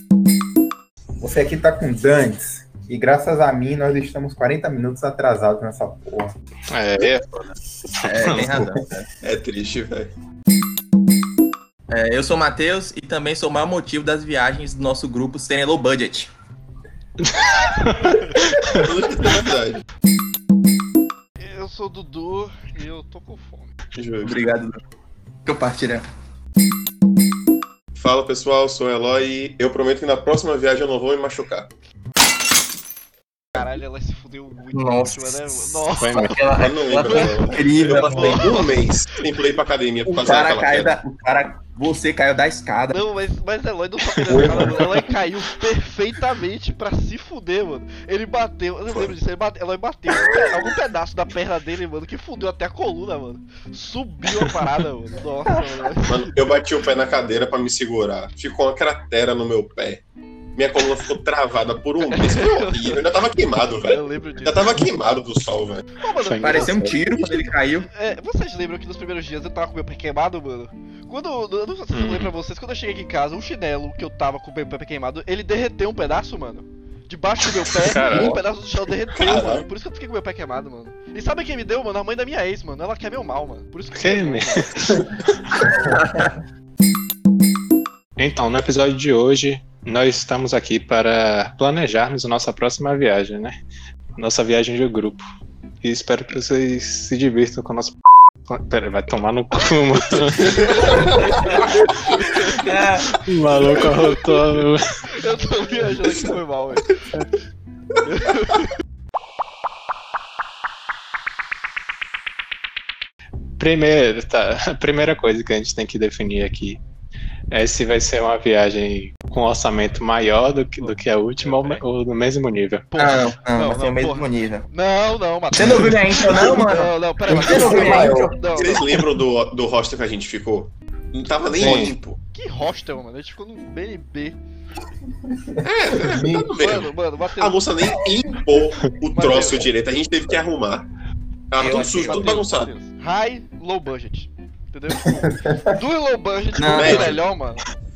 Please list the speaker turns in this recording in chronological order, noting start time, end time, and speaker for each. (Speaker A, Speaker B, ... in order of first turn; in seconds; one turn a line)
Speaker A: 1.2-6.3
Speaker B: 6.7-8.7
Speaker C: 8.0-9.1
Speaker D: 9.2-10.1
Speaker C: 11.9-16.3
Speaker B: 17.2-18.4
Speaker D: 18.6-19.8
Speaker E: 21.4-23.7
Speaker D: 23.9-24.4
Speaker C: 24.2-24.8
Speaker C: 25.4-26.1
Speaker D: 27.9-31.7
Speaker E: 33.5-38.9
Speaker C: 34.7-38.8
Speaker B: 36.0-36.5
Speaker D: 36.5-41.0
Speaker C: 40.1-43.0
Speaker E: 42.9-56.4
Speaker A: 44.3-44.8
Speaker D: 56.0-60.0
Speaker D: 60.6-65.9
Speaker E: 62.0-63.0
Speaker E: 63.7-64.9
Speaker E: 66.0-66.8
Speaker B: 66.2-67.0
Speaker C: 66.4-67.9
Speaker E: 67.9-85.0
Speaker B: 71.9-72.3
Speaker B: 77.7-78.4
Speaker D: 79.2-79.7
Speaker B: 79.2-79.5
Speaker B: 84.0-85.6
Speaker C: 85.8-86.3
Speaker B: 88.2-93.6
Speaker B: 94.2-95.2
Speaker B: 95.8-101.1
Speaker E: 100.5-102.7
Speaker C: 102.5-103.2
Speaker B: 103.1-104.8
Speaker E: 103.7-104.3
Speaker E: 105.1-106.9
Speaker E: 108.0-108.7
Speaker B: 113.6-116.8
Speaker B: 117.5-122.9
Speaker E: 120.8-121.8
Speaker E: 122.9-128.9
Speaker C: 123.0-124.7
Speaker C: 125.5-129.0
Speaker A: 127.3-128.4
Speaker D: 128.5-132.2
Speaker C: 131.6-131.9
Speaker B: 131.6-131.9
Speaker E: 132.3-134.4
Speaker A: 135.3-136.6
Speaker D: 135.6-140.9
Speaker E: 136.5-137.6
Speaker E: 139.1-139.7
Speaker D: 141.5-142.7
Speaker C: 141.6-142.4
Speaker E: 141.9-147.7
Speaker A: 145.2-145.8
Speaker C: 146.6-147.2
Speaker D: 146.7-147.2